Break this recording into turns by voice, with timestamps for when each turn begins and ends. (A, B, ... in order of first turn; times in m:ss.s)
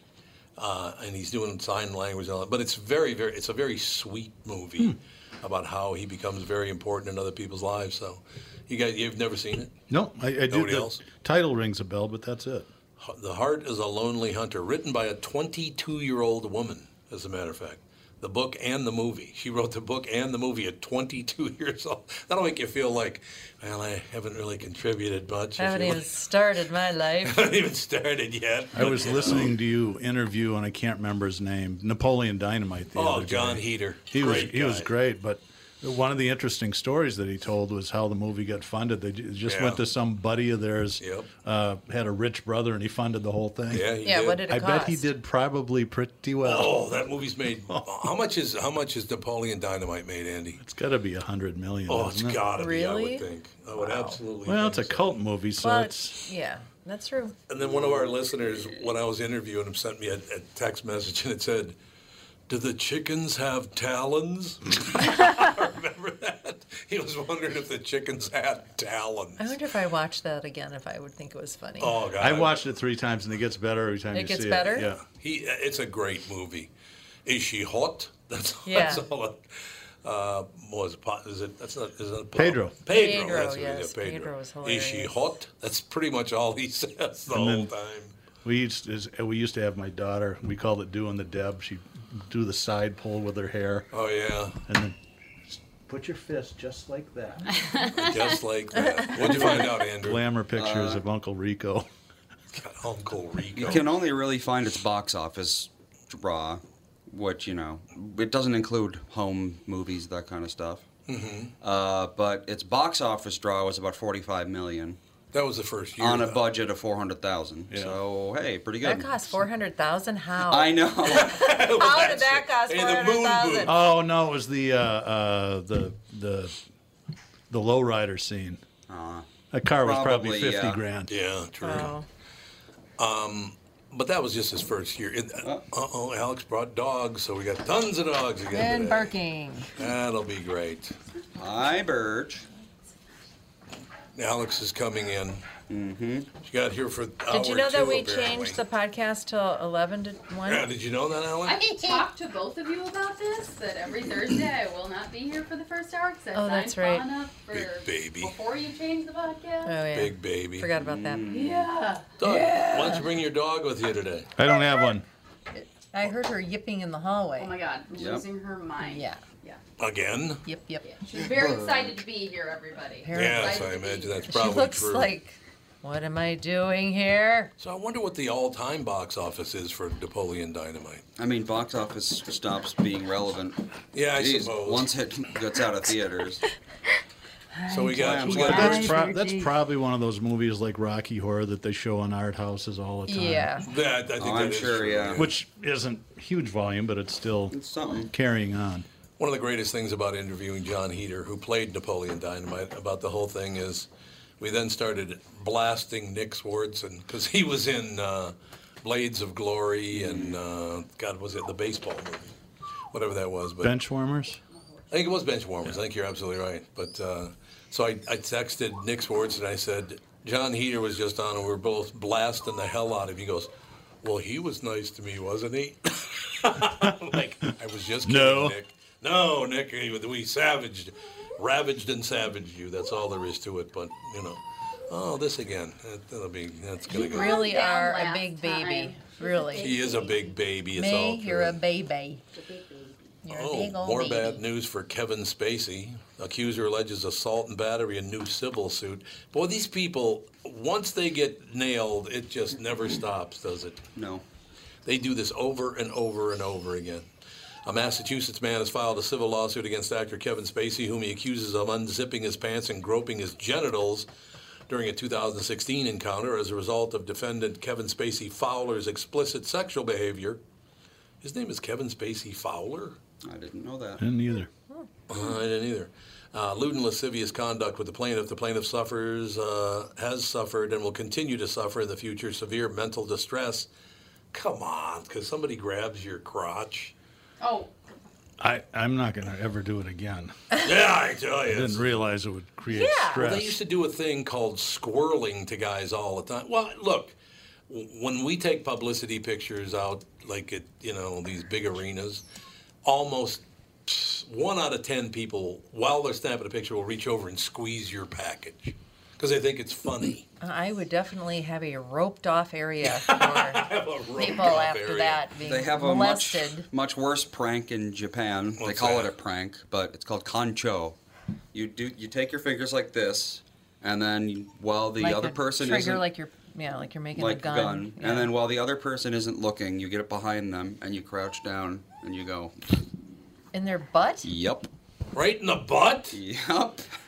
0:00.6-0:09.8 A
0:09.9-0:12.7 B
0:10.5-0:11.0 A
0:13.0-0:26.1 A
0:25.6-0:27.4 C
0:27.2-0:29.6 A
0:28.7-0:43.9 B
0:33.0-0:34.9 A
0:39.4-0:39.8 A
0:41.0-0:41.3 A
0:43.7-0:44.4 A
0:44.0-0:45.1 C
0:44.4-0:46.9 B
0:46.4-0:50.6 A
0:50.6-0:52.4 B
0:51.9-0:55.2 A
0:52.5-0:54.2 C
0:54.4-0:56.2 B
0:55.6-0:57.4 C
0:57.5-1:01.8 A
0:57.6-0:58.9 D
1:02.5-1:09.6 A
1:09.4-1:12.0 C
1:11.8-1:12.6 A
1:12.2-1:15.0 B
1:14.1-1:14.9 C
1:15.0-1:16.7 A
1:17.3-1:19.5 A
1:18.6-1:19.1 C
1:20.0-1:28.2 A
1:22.4-1:22.8 B
1:22.9-1:25.3 C
1:27.3-1:27.7 B
1:28.4-1:33.9 B
1:33.9-1:34.6 A
1:34.7-1:37.5 B
1:38.0-1:40.4 A
1:38.8-1:39.6 C
1:39.1-1:41.9 B
1:40.5-1:41.0 D
1:42.5-1:43.9 A
1:43.5-1:50.8 D
1:51.1-1:51.5 A
1:51.6-1:55.0 D
1:55.3-1:56.5 A
1:56.0-1:59.2 D
1:58.8-2:03.8 C
2:00.5-2:01.4 D
2:01.0-2:03.8 A
2:03.6-2:06.6 B
2:07.5-2:08.6 B
2:08.9-2:09.3 D
2:09.5-2:11.2 B
2:09.8-2:10.8 D
2:11.1-2:12.0 A
2:11.6-2:12.0 C
2:13.0-2:19.2 A
2:18.5-2:19.7 C
2:19.8-2:21.0 A
2:21.4-2:22.5 D
2:24.2-2:25.5 A
2:25.7-2:26.3 D
2:26.4-2:28.6 A
2:27.3-2:30.7 C
2:30.4-2:31.6 A
2:31.4-2:39.8 E
2:36.3-2:37.0 C
2:37.5-2:38.3 A
2:39.6-2:41.3 C
2:39.8-2:40.7 A
2:40.7-2:41.7 D
2:41.3-2:43.1 E
2:42.2-2:44.3 A
2:44.4-2:45.1 B
2:45.5-2:47.5 C
2:47.4-2:49.6 E
2:47.9-2:48.3 D
2:48.8-2:49.2 C
2:49.8-2:50.4 A
2:50.4-2:50.8 C
2:50.8-2:54.3 E
2:51.2-2:52.0 D
2:53.0-2:53.7 C
2:53.1-2:55.1 A
2:54.3-2:57.5 C
2:57.6-3:01.0 A
3:01.2-3:03.6 D
3:03.9-3:04.9 A
3:04.1-3:06.4 D
3:07.6-3:09.6 E
3:07.7-3:08.9 A
3:07.9-3:08.9 D
3:08.3-3:13.6 B
3:13.1-3:13.7 C
3:13.6-3:15.4 A
3:14.2-3:15.3 D
3:15.2-3:18.9 B
3:17.5-3:18.1 D
3:19.2-3:23.9 A
3:24.4-3:32.4 A
3:29.9-3:30.4 D
3:32.9-3:33.8 A
3:33.6-3:34.4 B
3:34.9-3:43.5 A
3:44.0-3:57.4 A
3:48.0-3:48.6 B
3:56.9-3:59.8 C
3:56.9-4:00.4 E
3:59.6-4:01.6 A
4:00.8-4:02.2 C
4:02.3-4:03.2 E
4:03.3-4:13.8 A
4:03.3-4:04.4 C
4:14.0-4:14.2 D
4:14.8-4:17.1 A
4:17.6-4:24.1 A
4:24.7-4:30.4 A
4:31.2-4:33.0 A
4:33.2-4:34.0 D
4:34.0-4:34.5 B
4:35.1-4:43.7 A
4:44.3-4:46.9 A
4:47.4-4:47.7 E
4:48.4-4:50.3 B
4:50.5-4:52.0 A
4:51.5-4:53.6 B
4:52.7-4:53.2 C
4:53.1-4:57.2 A
4:57.7-5:02.2 A
5:02.8-5:10.3 A
5:10.4-5:16.7 C
5:12.8-5:15.3 A
5:15.4-5:21.0 D
5:18.6-5:19.1 A
5:21.5-5:26.1 D
5:25.0-5:28.3 C
5:27.2-5:32.8 D
5:33.5-5:34.3 C
5:34.2-5:34.7 D
5:35.1-5:36.2 A
5:36.1-5:36.9 D